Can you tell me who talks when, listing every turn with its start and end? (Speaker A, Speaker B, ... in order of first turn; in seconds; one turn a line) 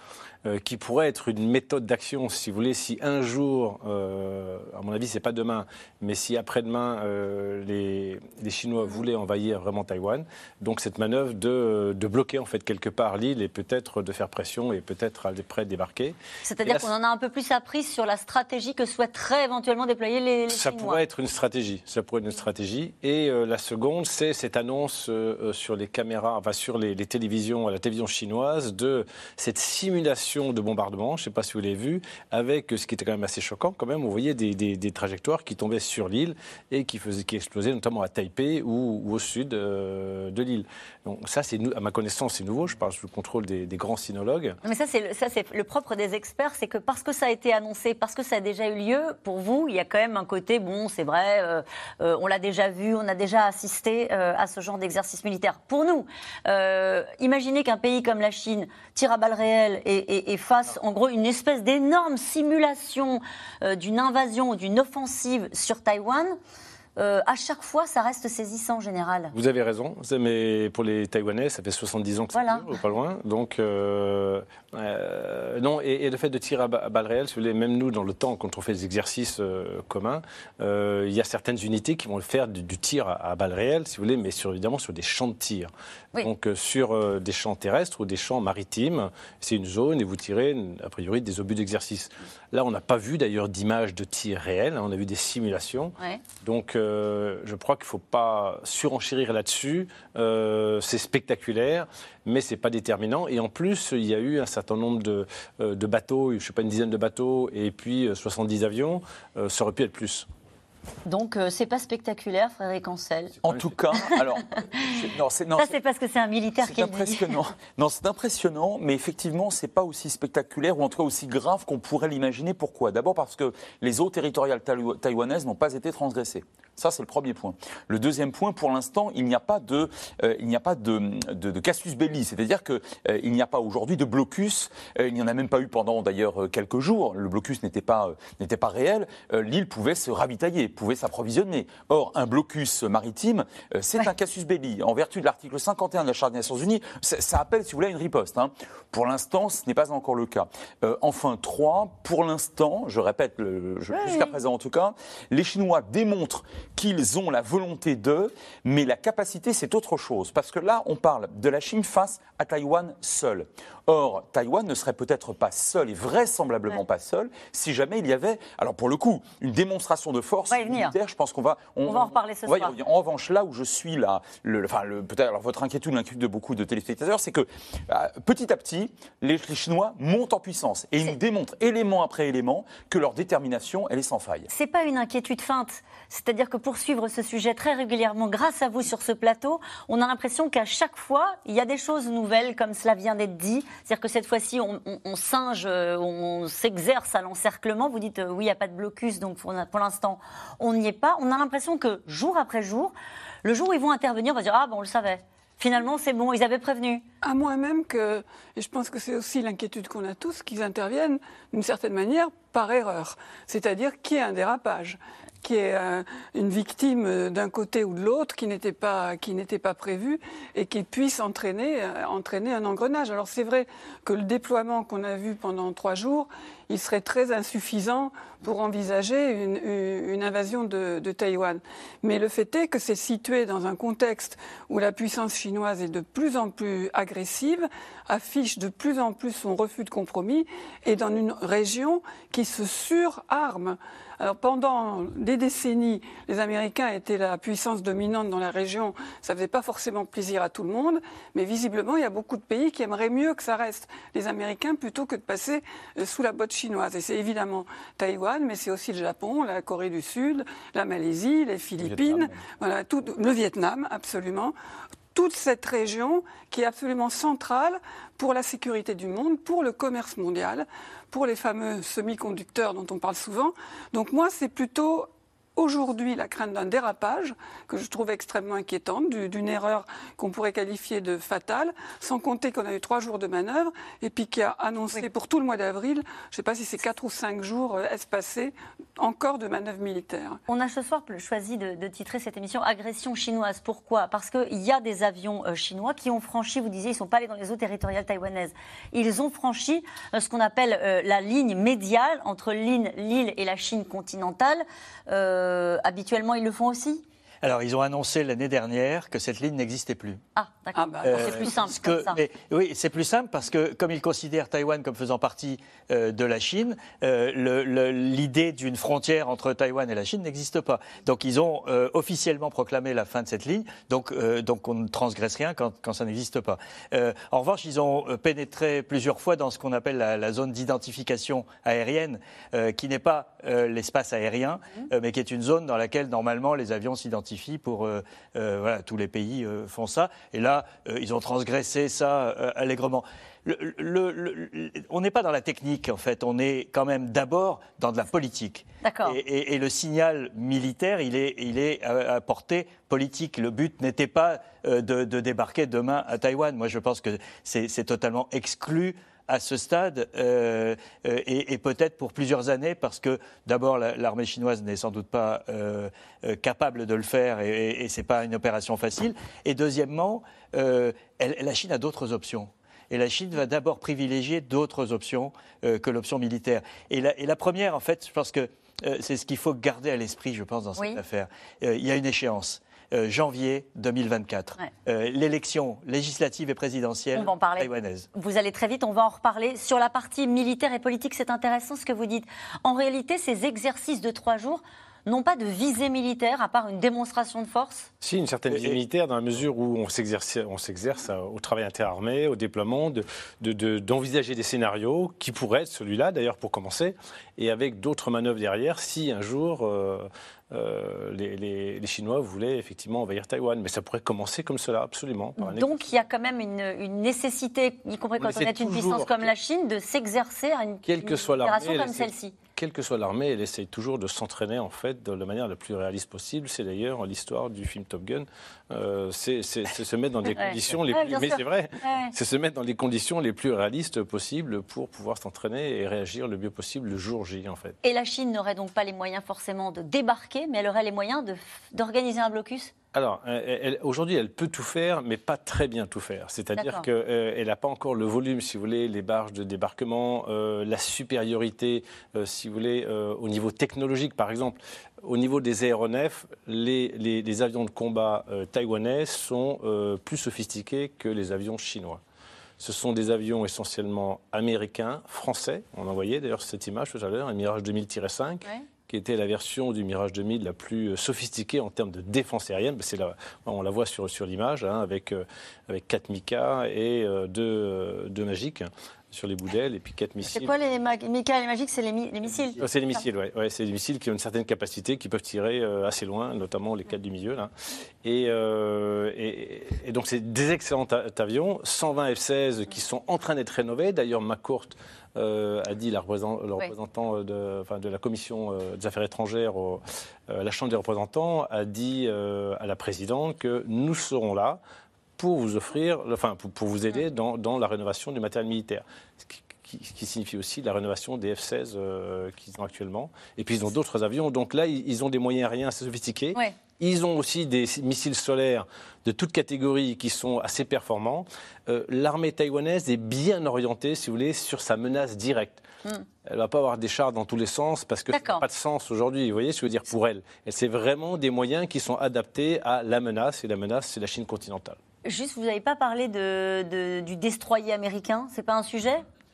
Speaker A: 0.5-16.9
Speaker B: 16.4-21.0
Speaker A: 20.5-44.6
Speaker B: 44.6-66.4
Speaker B: 67.0-69.3
Speaker A: 69.3-110.3
Speaker B: 72.3-72.7
Speaker B: 111.1-113.4
Speaker C: 113.4-115.8
Speaker B: 114.0-114.9
Speaker B: 115.6-117.4
Speaker C: 116.6-184.5
Speaker B: 153.9-154.3
Speaker B: 170.5-170.9
Speaker B: 171.9-172.8
Speaker B: 184.5-207.0
Speaker D: 207.2-264.6
Speaker A: 261.8-262.2
Speaker D: 265.1-290.4
Speaker B: 290.5-307.0
Speaker E: 307.4-310.2
Speaker B: 310.4-312.2
Speaker D: 310.7-311.7
Speaker E: 311.0-388.1
Speaker B: 348.8-349.2
Speaker B: 387.1-397.9
Speaker A: 398.0-415.9
Speaker E: 398.5-398.8
Speaker B: 415.4-422.4
Speaker A: 418.2-419.3
Speaker A: 420.8-437.8
Speaker B: 430.3-432.1
Speaker B: 437.8-442.7
Speaker A: 442.9-462.0
Speaker B: 446.6-446.9
Speaker A: 462.6-480.6
Speaker B: 480.2-483.1
Speaker A: 482.3-487.5
Speaker A: 488.0-504.6
Speaker A: 505.2-525.6
Speaker A: 526.2-534.8
Speaker B: 528.1-528.4
Speaker B: 535.0-539.0